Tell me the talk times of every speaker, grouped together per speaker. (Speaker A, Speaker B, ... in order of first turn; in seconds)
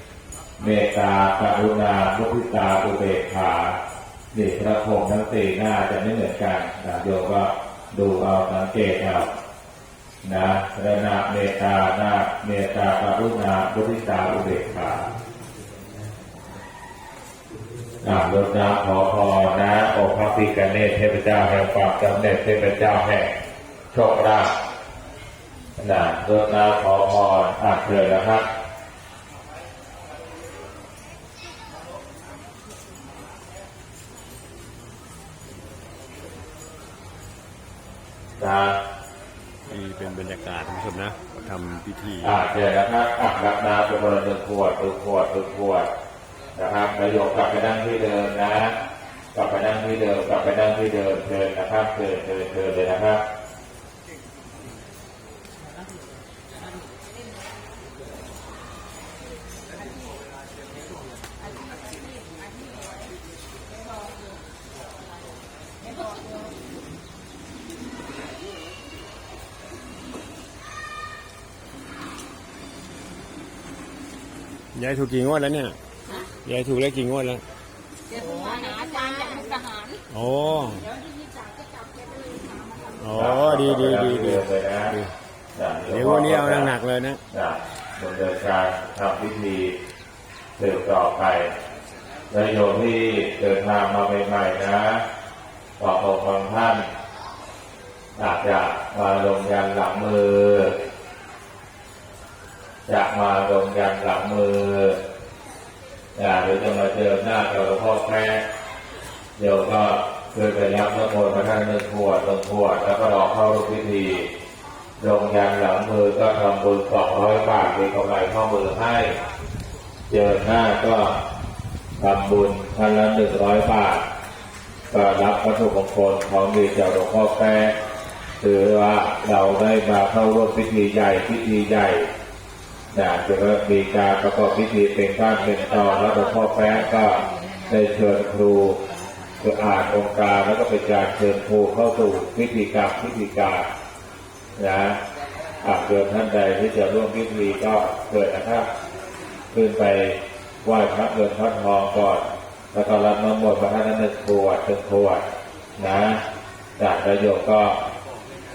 Speaker A: 0.6-3.8, 4.3-9.3, 10.2-15.1, 18.0-23.3, 23.9-24.5, 25.8-28.5, 38.4-38.8, 42.2-45.9, 46.6-48.8, 49.3-53.2, 83.1-85.0, 85.5-86.7, 87.3-89.8, 90.6-91.5, 92.3-95.0, 95.8-96.9, 98.2-100.8, 102.9-105.0, 106.2-108.4, 109.4-114.3, 115.0-119.2, 120.1-121.2, 122.0-124.0, 124.9-127.8, 128.4-132.1, 132.9-138.8, 139.4-143.7, 144.6-145.0, 145.6-148.7, 149.5-155.2, 155.8-156.2, 156.8-157.8
Speaker B: 39.7-42.4, 74.7-77.4, 80.1-80.9, 82.9-85.1, 85.9-87.2
Speaker C: 78.1-80.0, 80.8-83.0